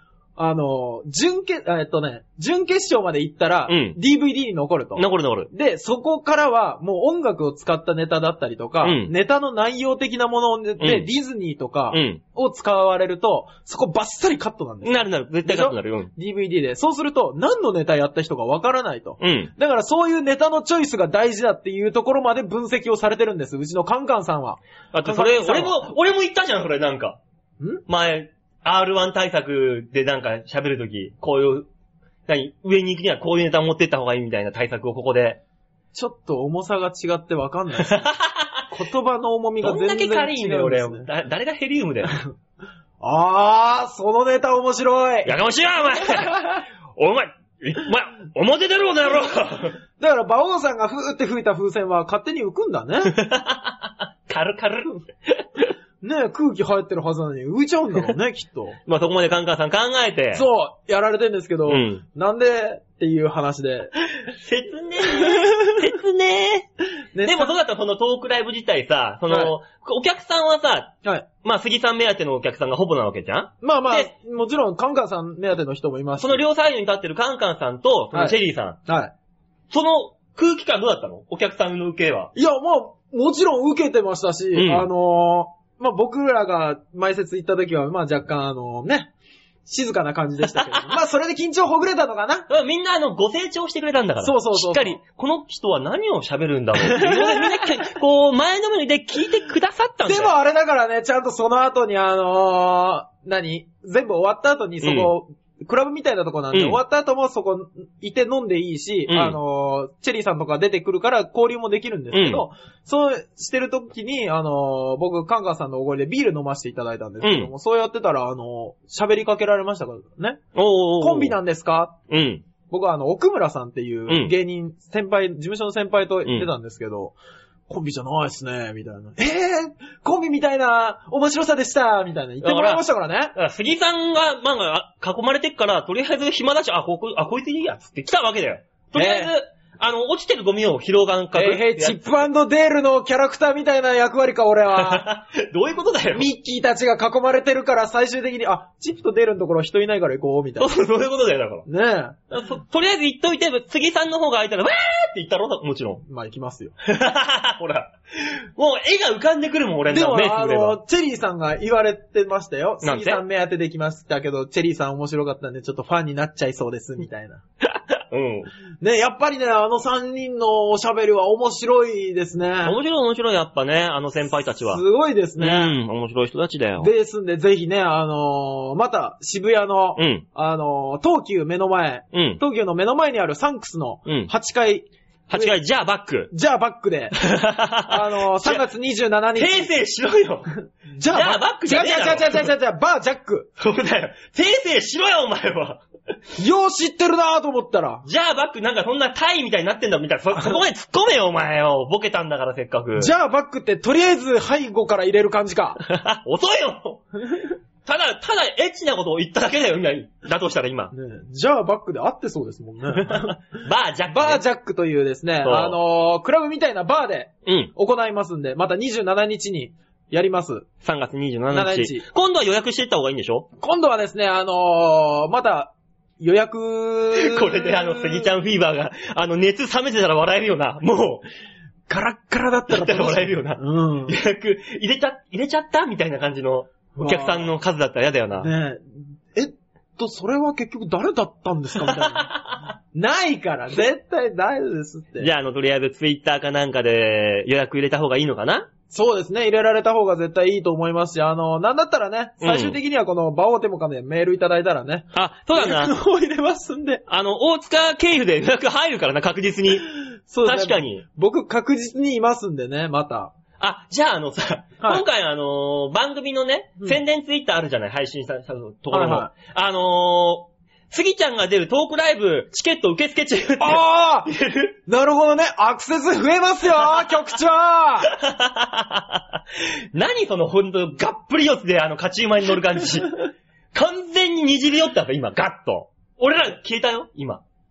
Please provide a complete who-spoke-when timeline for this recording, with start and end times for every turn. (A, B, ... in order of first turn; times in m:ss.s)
0:00.4-0:25.8 A
0:03.7-0:04.0 B
0:05.0-0:05.5 B
0:08.8-0:09.1 B
0:10.8-0:11.1 B
0:11.9-0:12.2 B
0:14.8-0:16.1 B
0:19.2-0:19.5 B
0:24.9-0:27.2 B
0:27.9-0:31.7 B
0:32.3-0:35.4 B
0:35.9-0:38.1 A
0:37.8-0:38.6 B
0:38.7-0:41.1 A
0:39.6-0:42.2 B
0:43.0-0:45.3 A
0:45.2-0:49.8 B
0:50.0-0:53.2 A
0:53.1-0:55.6 B
0:56.0-0:58.8 A
0:58.8-1:00.4 B
1:00.3-1:03.9 A
1:01.7-1:02.0 B
1:04.3-1:06.7 B
1:07.1-1:07.5 A
1:07.2-1:14.1 B
1:09.3-1:09.5 A
1:13.6-1:16.4 A
1:16.2-1:18.8 B
1:18.1-1:19.1 A
1:19.7-1:22.3 B
1:22.3-1:29.1 A
1:24.5-1:24.9 B
1:29.6-1:32.5 A
1:32.5-1:40.3 B
1:34.2-1:35.0 A
1:36.8-1:37.7 A
1:40.0-2:00.4 A
1:44.8-1:45.1 B
1:46.5-1:46.8 B
1:49.1-1:49.4 B
1:52.1-1:52.4 B
1:57.2-1:57.5 B
2:00.5-2:01.4 B
2:01.0-2:02.0 A
2:02.1-2:02.4 B
2:02.7-2:07.2 A
2:04.1-2:04.3 B
2:07.7-2:13.3 A
2:12.4-2:22.0 B
2:18.9-2:19.3 A
2:21.3-2:25.1 A
2:24.7-2:26.3 B
2:26.1-2:30.7 A
2:30.6-2:31.6 B
2:31.7-2:32.2 A
2:32.3-2:36.0 B
2:36.0-2:36.7 A
2:36.8-2:40.8 B
2:39.9-2:47.4 A
2:42.8-2:43.2 B
2:47.7-2:48.5 B
2:48.8-2:52.8 A
2:52.6-2:54.8 B
2:54.6-2:55.8 A
2:55.4-2:56.9 B
2:56.8-3:05.5 A
3:00.0-3:00.2 B
3:02.1-3:02.4 B
3:04.0-3:04.3 B
3:05.3-3:06.3 B
3:06.3-3:07.2 A
3:07.2-3:08.6 B
3:07.8-3:09.7 A
3:09.4-3:10.5 B
3:11.0-3:13.5 A
3:11.1-3:12.5 B
3:13.6-3:15.8 B
3:16.4-3:18.0 A
3:18.0-3:23.1 B
3:23.0-3:25.8 A
3:25.8-3:27.0 B
3:27.8-3:30.9 B
3:30.9-3:33.4 A
3:33.0-3:34.4 B
3:34.1-3:40.7 A
3:35.4-3:35.8 B
3:37.4-3:37.7 B
3:40.8-3:43.5 B
3:41.5-3:42.0 A
3:43.6-3:48.3 A
3:47.1-3:51.2 B
3:51.9-3:54.2 A
3:52.7-3:58.5 B
3:56.9-3:57.5 A
3:58.4-4:02.3 A
4:01.8-4:02.6 B
4:02.9-4:05.3 A
4:05.2-4:08.7 B
4:08.9-4:17.0 A
4:12.4-4:12.8 B
4:15.1-4:15.9 B
4:17.1-4:19.9 B
4:20.3-4:23.3 A
4:20.4-4:21.0 B
4:23.6-4:34.7 B
4:28.9-4:29.3 A
4:33.6-4:34.3 A
4:34.9-4:38.1 A
4:36.7-4:37.2 B
4:38.0-4:39.4 B
4:39.9-4:47.4 B